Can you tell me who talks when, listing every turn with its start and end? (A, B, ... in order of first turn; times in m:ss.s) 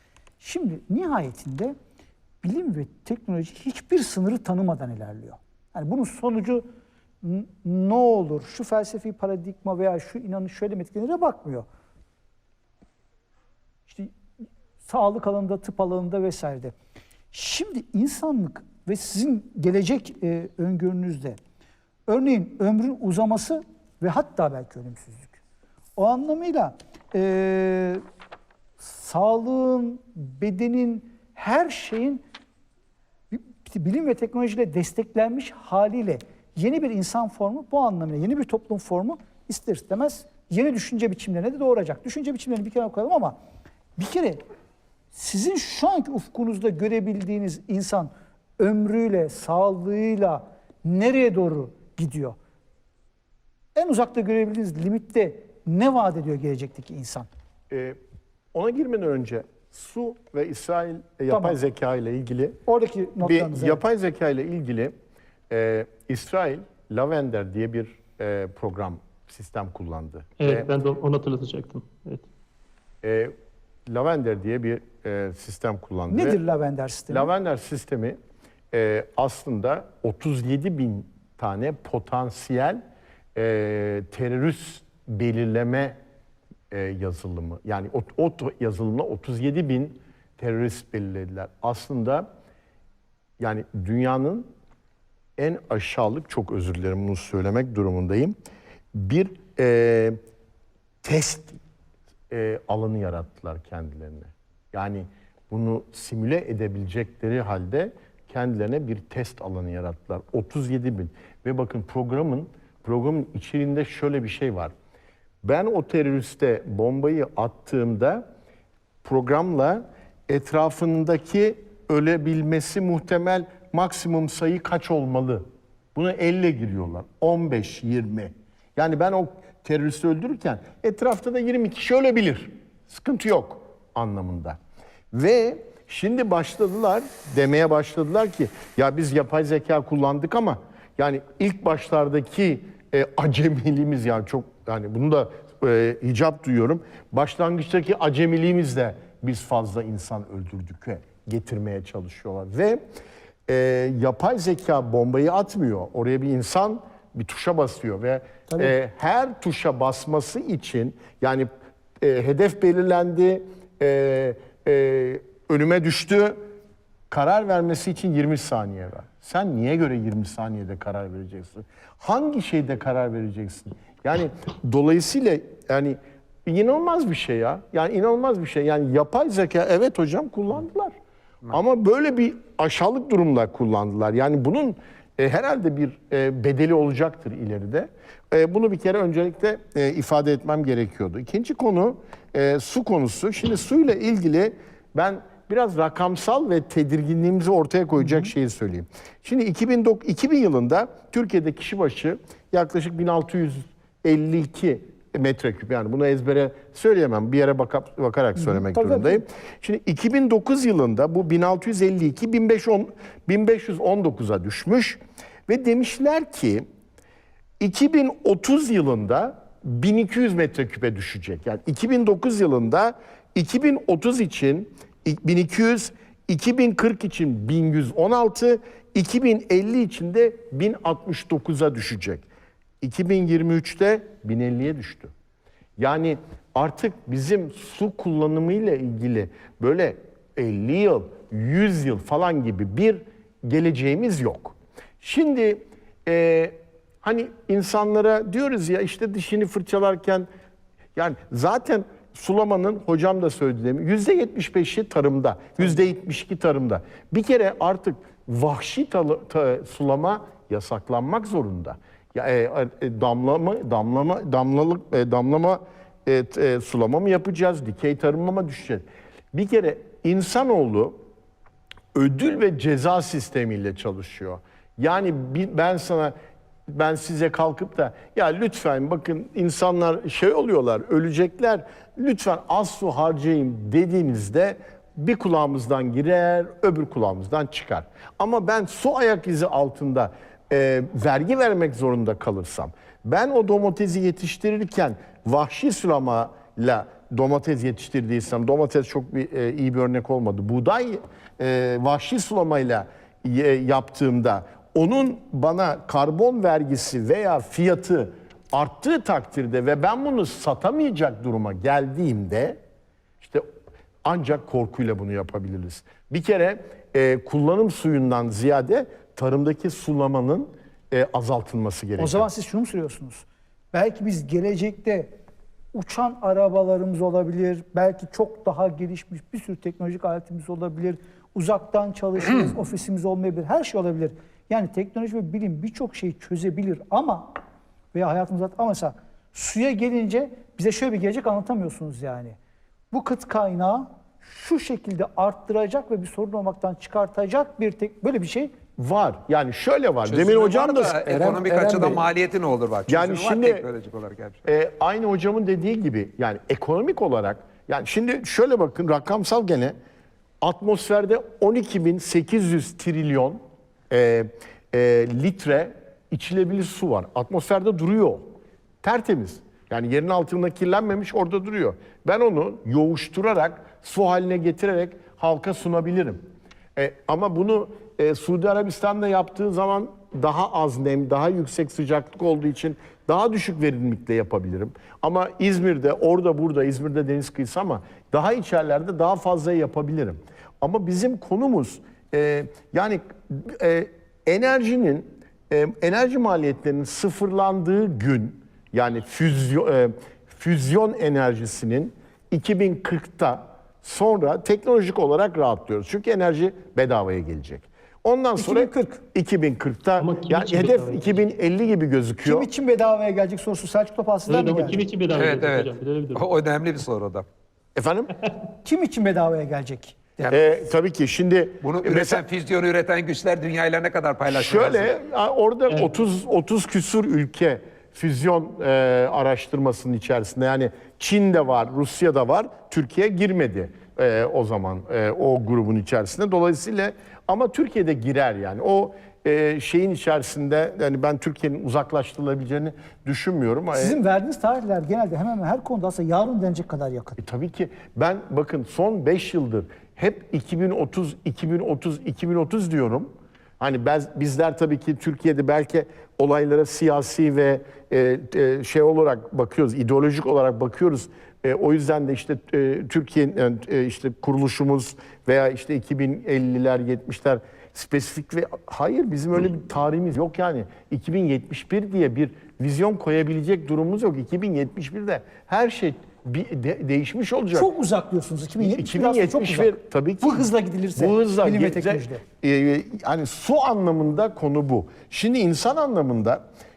0:00.4-0:01.7 A
0:02.4-0:06.7 A
0:07.2-0:11.7 A
0:13.9-0:14.1 A
0:14.8-0:16.8 A
0:17.3-0:21.4 A
0:22.1-0:25.4 A
0:26.0-0:28.0 A
0:28.8-0:32.2 A
0:33.3-0:43.4 A
0:44.0-0:44.4 A
0:45.1-0:52.4 A
0:53.8-0:57.3 A
0:57.7-0:58.0 B
0:58.5-1:02.6 B
1:01.3-1:01.6 A
1:02.7-1:03.8 A
1:03.2-1:04.9 B
1:05.5-1:10.7 B
1:10.4-1:12.3 C
1:13.0-1:13.3 B
1:13.9-1:16.4 B
1:16.1-1:17.3 A
1:17.1-1:18.2 B
1:18.7-1:22.8 B
1:23.4-1:26.0 B
1:26.7-1:32.3 B
1:33.4-1:34.5 B
1:35.4-1:38.3 B
1:38.9-1:40.2 B
1:41.0-1:41.6 B
1:42.3-1:54.7 B
1:55.4-1:58.2 B
1:59.0-2:14.6 B
2:15.1-2:32.8 B
2:33.5-2:41.5 B
2:42.0-2:46.4 B
2:47.1-3:00.9 B
3:01.5-3:36.7 B
3:18.0-3:18.3 A
3:28.4-3:29.2 A
3:37.6-3:52.3 B
3:52.8-3:55.1 B
3:55.8-4:10.3 B
4:11.0-4:31.0 B
4:31.9-4:36.1 B
4:36.7-5:12.6 B
5:14.0-5:22.3 B
5:22.0-5:25.2 A
5:25.7-5:37.3 A
5:37.9-5:42.4 A
5:42.9-5:48.5 A
5:48.8-5:52.0 B
5:50.1-5:54.4 D
5:52.9-5:53.6 B
5:54.4-5:59.8 B
6:00.4-6:16.2 B
6:16.8-6:52.5 B
6:48.4-6:49.0 A
6:50.0-6:51.2 C
6:52.2-6:54.9 A
6:54.3-6:56.3 C
6:55.1-6:57.3 D
6:57.8-6:58.1 B
6:58.6-7:00.3 A
7:00.3-7:02.2 B
7:01.6-7:04.9 D
7:04.3-7:24.0 B
7:23.8-7:27.2 A
7:27.2-7:57.7 B
7:57.5-8:02.2 A
7:58.6-8:06.4 B